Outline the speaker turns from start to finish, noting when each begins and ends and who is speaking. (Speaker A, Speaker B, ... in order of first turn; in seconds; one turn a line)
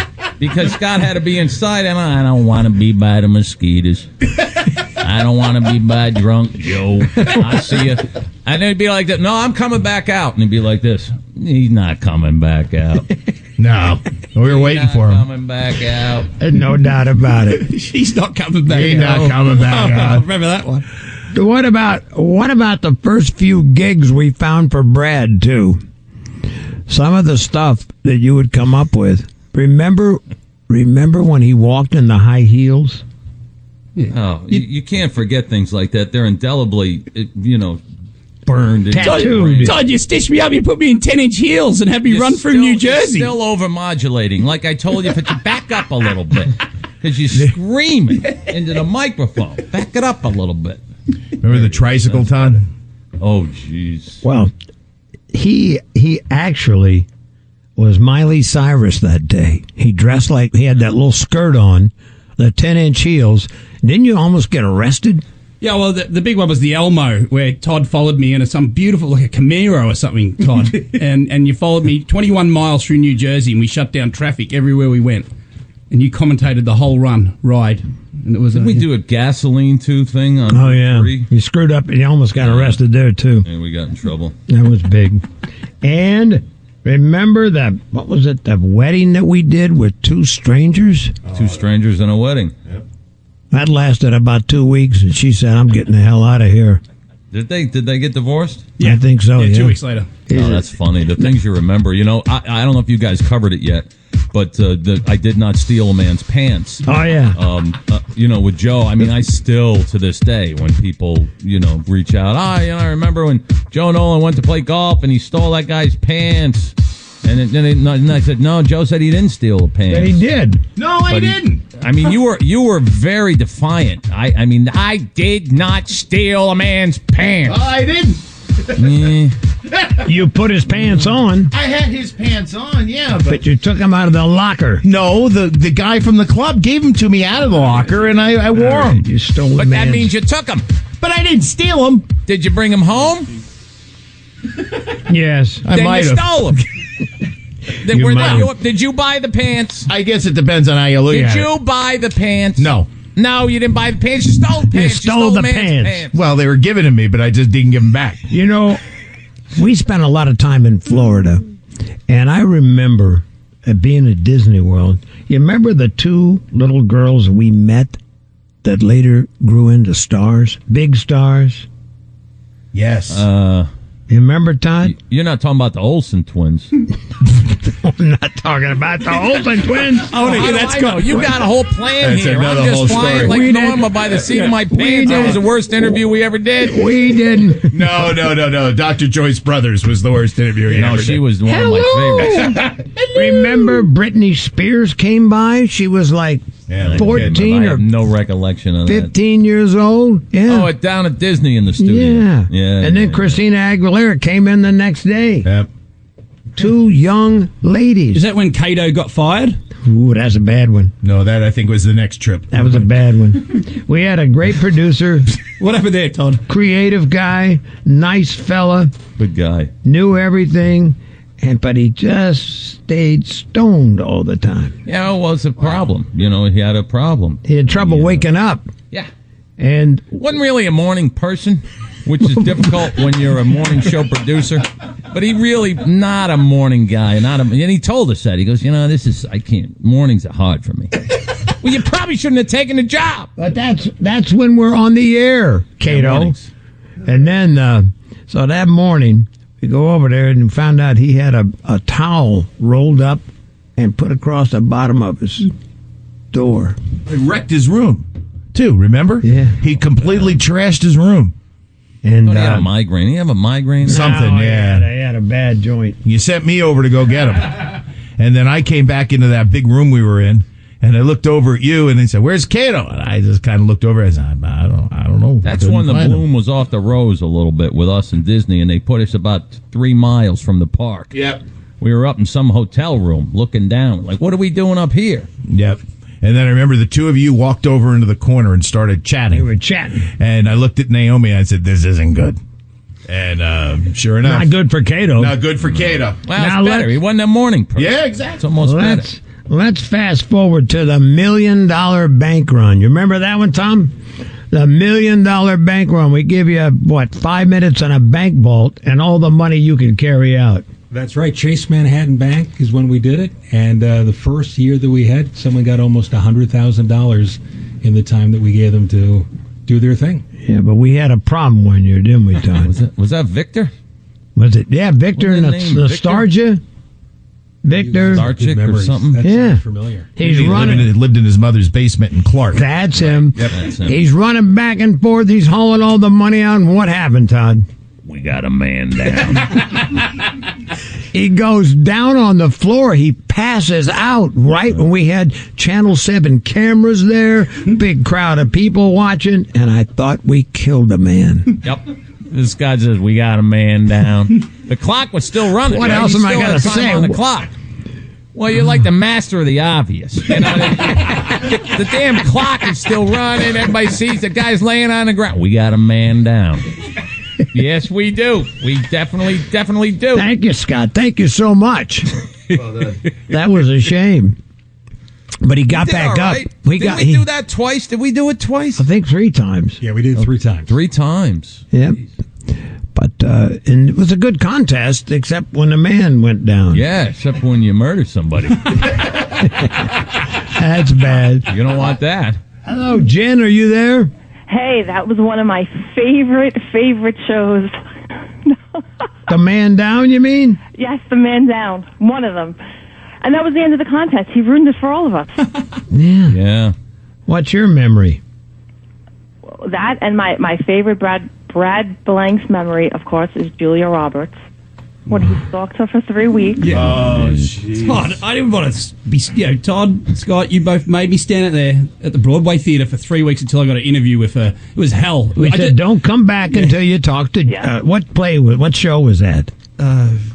Speaker A: 0.4-4.1
Speaker A: 5.0-13.1
Speaker B: 13.6-15.2
Speaker A: 14.4-16.3
Speaker C: 16.4-17.7
Speaker D: 17.5-20.9
Speaker B: 18.7-20.3
Speaker C: 21.3-25.8
Speaker C: 26.9-33.0
Speaker D: 34.0-34.6
Speaker A: 34.1-37.8
Speaker C: 38.5-39.8
Speaker A: 38.6-39.8
Speaker D: 39.0-43.3
Speaker A: 42.1-50.8
Speaker B: 51.4-52.6
Speaker A: 51.5-52.3
Speaker A: 53.2-54.2
Speaker C: 54.2-54.5
Speaker C: 55.3-57.1
Speaker C: 57.8-65.2
Speaker D: 65.6-75.3
Speaker D: 75.9-78.9
Speaker A: 78.5-81.3
Speaker C: 80.5-83.5
Speaker A: 82.4-82.8
Speaker A: 83.5-84.3
Speaker C: 84.5-85.2
Speaker C: 85.8-91.2
Speaker A: 91.3-92.5
Speaker C: 93.5-96.8
Speaker A: 97.3-98.7
Speaker D: 98.8-100.1
Speaker C: 98.8-100.7
Speaker A: 100.3-120.2
Speaker C: 106.8-107.4
Speaker C: 119.9-120.7
Speaker B: 120.8-121.6
Speaker A: 121.1-127.6
Speaker B: 127.5-128.2
Speaker A: 128.8-129.3
Speaker C: 130.0-131.5
Speaker B: 131.5-133.4
Speaker C: 133.3-134.8
Speaker B: 134.8-139.0
Speaker C: 138.6-140.1
Speaker A: 139.6-140.7
Speaker B: 141.0-142.1
Speaker A: 142.3-143.3
Speaker C: 145.1-145.7
Speaker B: 145.7-146.3
Speaker A: 145.7-146.6
Speaker A: 147.8-149.9
Speaker C: 147.9-148.5
Speaker B: 149.9-151.5
Speaker A: 151.1-156.1
Speaker B: 152.6-152.9
Speaker C: 154.7-156.1
Speaker B: 156.1-158.3
Speaker C: 158.3-158.8
Speaker C: 159.5-161.5
Speaker C: 162.1-168.0
Speaker C: 168.6-171.7
Speaker B: 172.7-173.2
Speaker A: 173.1-173.7
Speaker C: 174.1-174.9
Speaker A: 174.8-176.7
Speaker C: 177.4-180.4
Speaker D: 180.1-181.3
Speaker A: 180.2-186.9
Speaker B: 182.0-183.4
Speaker C: 183.2-185.4
Speaker C: 186.6-188.1
Speaker B: 187.7-191.2
Speaker A: 190.7-192.6
Speaker C: 191.5-197.9
Speaker B: 192.3-193.6
Speaker B: 196.7-197.4
Speaker A: 196.8-199.1
Speaker C: 198.8-200.7
Speaker A: 200.5-203.4
Speaker C: 201.8-205.5
Speaker C: 206.6-208.2
Speaker D: 208.1-209.6
Speaker C: 209.8-210.9
Speaker B: 211.0-212.8
Speaker C: 212.5-215.3
Speaker D: 215.6-216.4
Speaker C: 216.5-218.9
Speaker A: 219.2-219.7
Speaker C: 219.8-224.7
Speaker A: 224.9-228.2
Speaker C: 227.5-228.7
Speaker C: 229.6-230.1
Speaker A: 230.2-241.1
Speaker A: 241.6-243.3
Speaker C: 243.4-246.3
Speaker A: 245.9-246.4
Speaker C: 247.1-253.2
Speaker C: 253.8-255.5
Speaker C: 256.3-256.8
Speaker B: 257.1-261.3
Speaker C: 259.2-259.6
Speaker C: 262.0-262.7
Speaker A: 262.2-264.2
Speaker C: 263.8-266.0
Speaker B: 263.8-264.9
Speaker B: 266.1-276.2
Speaker A: 275.4-281.1
Speaker B: 281.1-281.4
Speaker A: 281.8-285.3
Speaker B: 285.5-289.5
Speaker C: 289.3-290.1
Speaker B: 290.2-292.4
Speaker B: 293.1-294.5
Speaker C: 294.2-295.4
Speaker B: 295.2-296.2
Speaker A: 296.2-299.1
Speaker C: 296.3-297.0
Speaker B: 297.8-298.4
Speaker C: 298.6-303.9
Speaker C: 304.5-310.7
Speaker E: 310.9-320.2
Speaker C: 320.4-322.8
Speaker A: 322.6-323.7
Speaker C: 324.4-326.6
Speaker A: 325.2-326.3
Speaker C: 327.6-328.3
Speaker E: 327.7-330.7
Speaker A: 328.1-329.2
Speaker C: 329.2-329.6
Speaker C: 330.2-330.9
Speaker B: 330.2-332.6
Speaker C: 332.5-337.7
Speaker B: 333.2-333.6
Speaker A: 333.5-334.0
Speaker A: 338.1-339.9
Speaker C: 341.1-351.6
Speaker A: 351.6-357.5
Speaker C: 355.6-357.2
Speaker A: 358.4-366.7
Speaker A: 367.5-370.3
Speaker C: 370.1-372.1
Speaker B: 372.6-373.0
Speaker C: 373.3-374.4
Speaker C: 375.4-377.2
Speaker A: 375.7-378.8
Speaker C: 378.8-379.8
Speaker E: 379.8-380.7
Speaker A: 380.7-381.6
Speaker C: 381.7-382.0
Speaker C: 382.9-386.8
Speaker A: 386.7-389.1
Speaker C: 389.4-389.8
Speaker C: 390.4-391.6
Speaker A: 391.5-392.4
Speaker C: 392.6-394.1
Speaker F: 394.5-397.8
Speaker F: 398.5-398.8
Speaker C: 399.3-400.6
Speaker F: 400.8-402.6
Speaker F: 403.2-405.3
Speaker C: 405.9-406.4
Speaker A: 406.3-406.7
Speaker C: 407.3-408.2
Speaker F: 409.6-414.4
Speaker F: 415.1-416.8
Speaker D: 416.6-417.0
Speaker B: 416.7-418.2
Speaker A: 416.8-417.5
Speaker D: 417.8-425.8
Speaker C: 425.4-429.5
Speaker D: 429.8-430.2